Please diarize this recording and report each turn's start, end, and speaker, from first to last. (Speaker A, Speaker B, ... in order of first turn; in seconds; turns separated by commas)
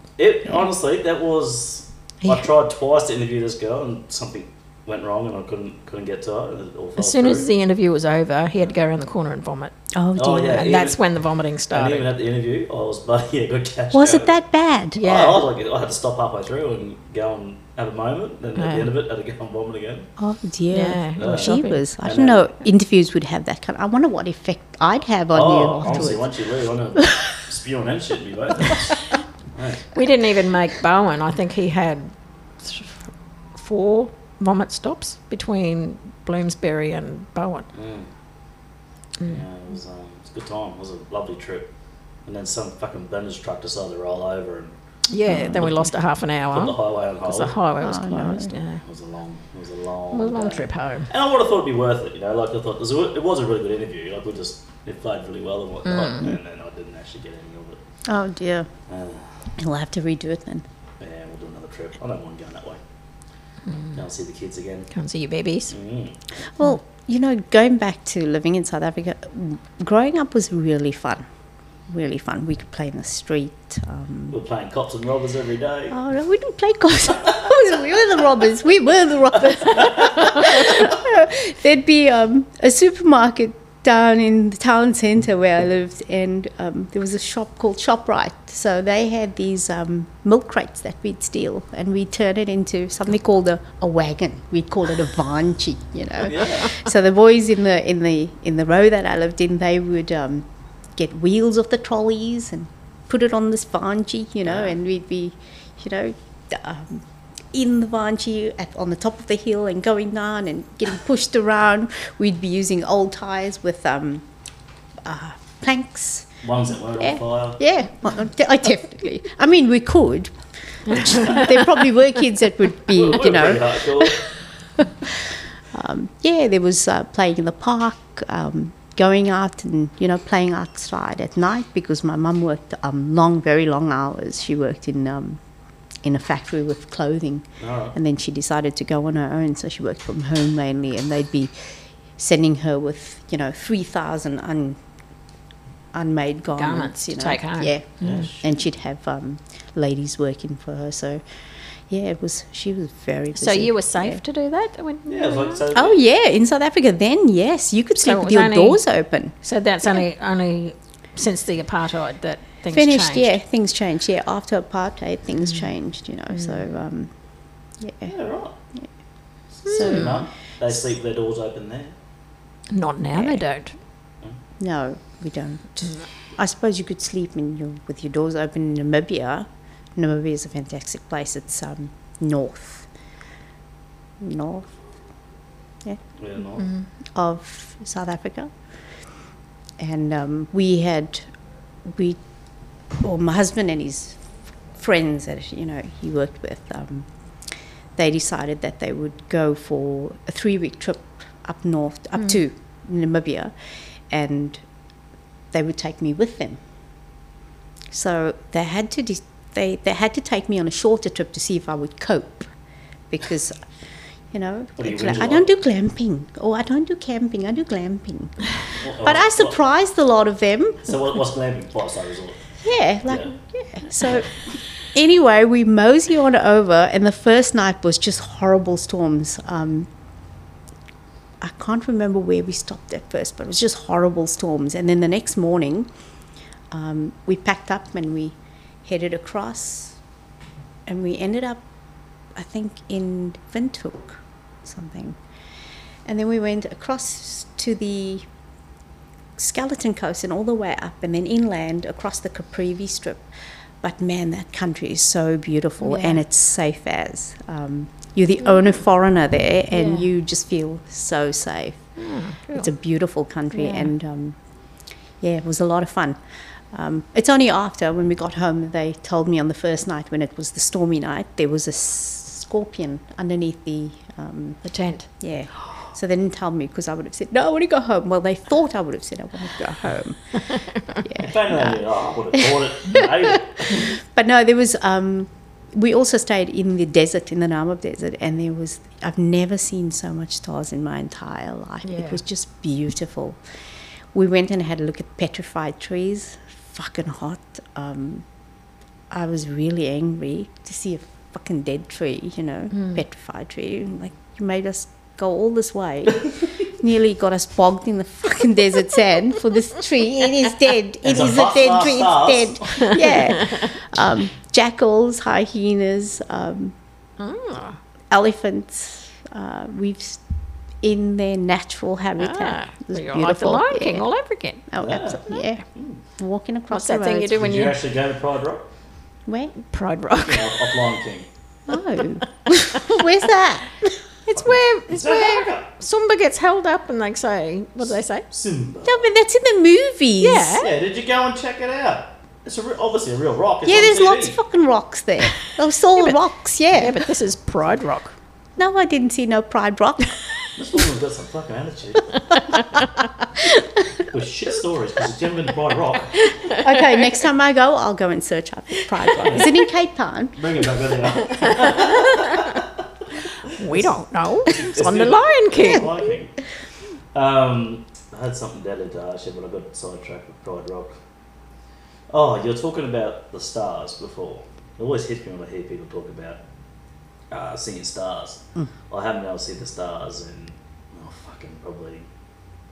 Speaker A: 0.2-7.5, Speaker B: 7.0-9.8, Speaker C: 9.9-10.7, Speaker A: 10.2-11.0, Speaker B: 10.5-12.1, Speaker A: 11.7-14.4, Speaker C: 13.9-15.1, Speaker B: 15.0-15.4, Speaker A: 15.0-20.1, Speaker B: 18.6-18.9, Speaker C: 20.2-26.3, Speaker B: 20.7-21.8, Speaker A: 21.2-22.4, Speaker A: 25.3-29.0, Speaker A: 29.6-29.9, Speaker B: 29.9-37.7, Speaker A: 37.7-38.1, Speaker A: 39.2-41.7, Speaker A: 42.3-44.8, Speaker B: 45.1-48.8, Speaker C: 45.3-45.6, Speaker A: 45.5-45.9, Speaker A: 46.5-47.5, Speaker C: 47.8-48.5, Speaker A: 48.8-57.8, Speaker B: 50.1-51.1, Speaker B: 55.9-56.3, Speaker C: 58.1-58.7, Speaker A: 58.9-59.3, Speaker C: 59.6-60.6, Speaker A: 61.0-62.8, Speaker A: 64.0-64.9, Speaker B: 64.9-65.7, Speaker A: 65.7-66.2, Speaker C: 66.6-71.2, Speaker C: 71.9-74.3, Speaker A: 74.3-76.0, Speaker C: 75.9-114.3, Speaker A: 96.2-96.8, Speaker A: 104.5-104.7, Speaker C: 115.0-116.3, Speaker A: 116.4-117.6, Speaker C: 117.0-120.3, Speaker C: 120.9-124.2, Speaker B: 120.9-121.6, Speaker A: 122.9-124.2, Speaker C: 124.8-135.4, Speaker C: 136.0-144.8, Speaker A: 137.6-138.0, Speaker C: 145.9-151.2, Speaker B: 146.5-148.2, Speaker A: 148.0-148.5, Speaker C: 151.9-154.2, Speaker B: 153.3-155.6, Speaker A: 155.1-156.0, Speaker C: 155.7-159.3, Speaker B: 158.0-158.8, Speaker B: 159.4-163.4, Speaker C: 162.7-167.1, Speaker C: 167.8-168.1, Speaker A: 168.1-168.6, Speaker A: 169.6-171.9, Speaker C: 169.7-170.2, Speaker B: 169.7-170.2, Speaker B: 172.7-173.7, Speaker C: 173.2-173.4, Speaker C: 174.6-182.9, Speaker C: 184.2-184.7, Speaker A: 186.2-186.7, Speaker B: 186.6-186.8, Speaker C: 187.2-188.5, Speaker C: 189.8-191.3, Speaker C: 191.8-192.2, Speaker C: 193.0-194.2, Speaker C: 194.8-197.1, Speaker C: 198.0-203.5, Speaker C: 204.1-204.6, Speaker C: 205.5-206.6, Speaker C: 207.9-212.5, Speaker C: 213.1-213.6, Speaker C: 214.3-218.4, Speaker A: 214.8-215.5, Speaker A: 218.8-219.6, Speaker C: 219.0-220.8, Speaker A: 220.8-222.4, Speaker C: 222.6-224.3, Speaker A: 223.1-223.3, Speaker C: 224.9-229.9, Speaker C: 231.4-235.9, Speaker C: 236.7-240.0, Speaker C: 240.9-241.6, Speaker C: 242.3-245.2, Speaker C: 246.1-248.3, Speaker C: 249.4-253.3, Speaker C: 253.8-261.8, Speaker B: 255.8-256.2, Speaker B: 259.7-260.1, Speaker B: 262.0-262.7, Speaker C: 262.5-264.4, Speaker B: 263.5-263.9, Speaker C: 265.2-266.2, Speaker C: 266.7-274.6, Speaker B: 274.6-275.1, Speaker C: 275.2-281.8, Speaker A: 281.1-283.9, Speaker C: 283.6-293.4, Speaker B: 291.9-292.2, Speaker C: 294.1-298.2, Speaker C: 299.1-316.8, Speaker B: 302.7-303.0, Speaker A: 311.0-313.0, Speaker B: 317.2-317.8, Speaker C: 318.1-320.2, Speaker C: 320.8-324.1, Speaker B: 322.2-324.7, Speaker C: 324.7-325.6, Speaker A: 324.8-326.0, Speaker C: 326.2-327.4, Speaker B: 326.7-327.8, Speaker A: 327.3-328.7, Speaker C: 329.3-329.5, Speaker B: 329.6-330.7, Speaker A: 330.2-331.3, Speaker C: 331.7-333.9, Speaker B: 334.3-338.3, Speaker A: 334.3-335.7, Speaker A: 338.3-339.1, Speaker C: 338.9-340.6, Speaker B: 340.2-340.7, Speaker A: 340.6-344.4, Speaker C: 343.6-347.0, Speaker B: 346.7-348.1, Speaker C: 348.6-350.2, Speaker A: 350.6-352.7, Speaker A: 354.1-356.2, Speaker C: 356.5-360.4, Speaker A: 359.1-359.5, Speaker A: 360.4-362.6, Speaker B: 363.6-366.0, Speaker A: 364.5-366.4, Speaker A: 367.1-371.0, Speaker A: 372.1-376.4, Speaker A: 377.3-382.1